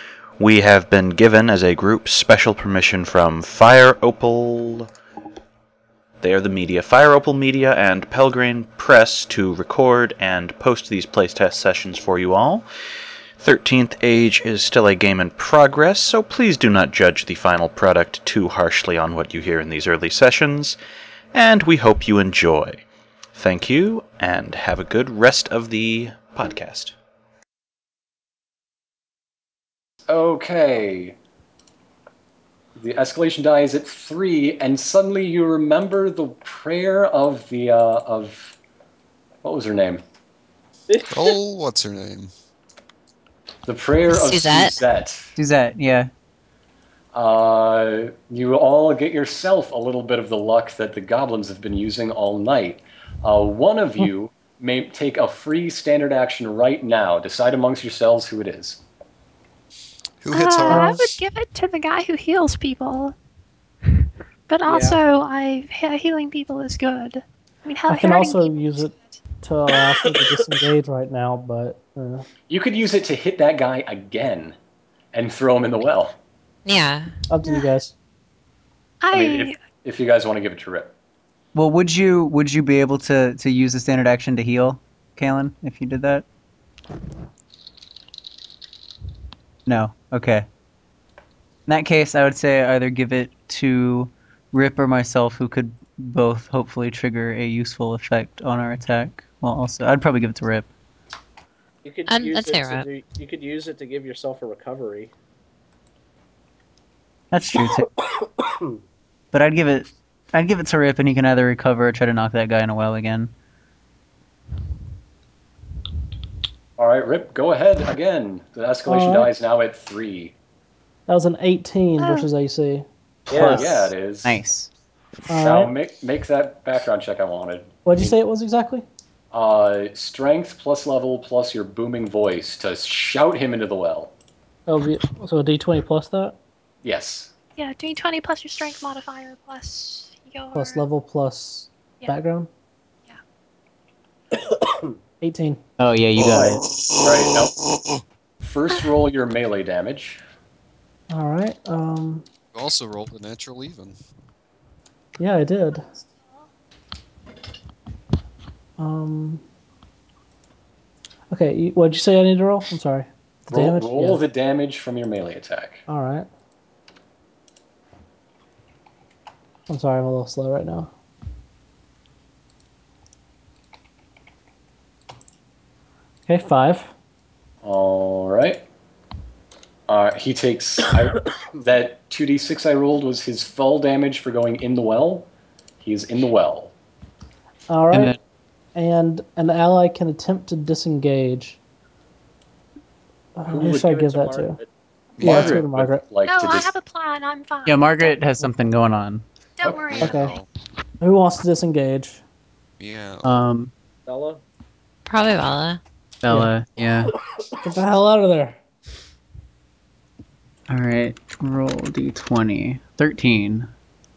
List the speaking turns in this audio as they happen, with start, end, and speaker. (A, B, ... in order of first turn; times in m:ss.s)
0:00.4-0:04.9 A
0:06.2-0:12.7 A
0:13.4-0:20.8 A
0:21.3-0:22.8 A
0:23.4-0:26.9 A
0:30.1-0:31.2 B
0:32.8-0:38.6 B
0:39.4-0:40.0 B
0:40.9-0:41.3 C
0:41.1-0:42.3 D
0:43.7-0:45.3 B
0:44.1-0:44.8 E
0:45.4-0:46.1 F
0:47.1-0:58.8 B
1:00.2-1:01.2 D
1:00.3-1:03.2 G
1:00.7-1:01.1 H
1:04.5-1:09.2 G
1:04.7-1:05.0 C
1:07.9-1:12.3 H
1:12.5-1:14.6 B
1:15.1-1:16.2 B
1:16.6-1:17.2 E
1:17.3-1:17.9 H
1:17.4-1:17.7 G
1:19.0-1:19.6 G
1:19.1-1:20.9 B
1:21.6-1:26.2 F
1:29.7-1:30.5 F
1:31.7-1:40.7 F
1:41.8-1:45.1 C
1:42.1-1:42.9 E
1:47.3-1:47.9 F
1:48.4-1:48.8 C
1:49.3-1:53.3 F
1:56.8-2:00.3 B
1:58.9-1:59.3 H
2:01.1-2:02.9 H
2:02.0-2:02.3 G
2:03.3-2:03.7 C
2:03.3-2:04.7 F
2:03.5-2:04.4 B
2:05.3-2:05.7 H
2:05.4-2:08.2 B
2:07.8-2:08.9 H
2:09.3-2:14.1 B
2:14.7-2:16.4 H
2:16.8-2:17.3 B
2:17.6-2:20.8 G
2:20.6-2:22.5 H
2:24.5-2:25.0 C
2:25.2-2:25.6 H
2:25.8-2:26.6 F
2:26.2-2:27.6 B
2:26.6-2:28.0 D
2:28.4-2:30.2 B
2:31.1-2:32.2 H
2:32.6-2:34.0 D
2:35.2-2:35.9 H
2:38.8-2:39.4 H
2:41.3-2:44.2 H
2:43.5-2:45.8 B
2:45.9-2:46.3 H
2:49.7-2:50.9 H
2:56.3-2:56.9 H
2:57.6-2:58.6 B
2:59.9-3:05.3 B
3:05.8-3:06.7 B
3:07.7-3:08.2 H
3:07.9-3:08.2 F
3:08.8-3:11.6 H
3:13.4-3:14.6 H
3:13.5-3:14.7 C
3:13.5-3:13.9 B
3:15.2-3:15.6 D
3:15.2-3:16.1 H
3:15.2-3:16.7 B
3:16.2-3:18.2 G
3:17.7-3:19.2 F
3:19.6-3:20.3 G
3:19.6-3:20.1 B
3:19.9-3:20.5 D
3:20.0-3:20.3 H
3:21.0-3:22.2 H
3:22.8-3:23.4 D
3:23.2-3:23.7 F
3:24.1-3:24.4 C
3:25.1-3:25.8 E
3:26.2-3:27.1 F
3:27.6-3:28.6 H
3:30.7-3:33.7 F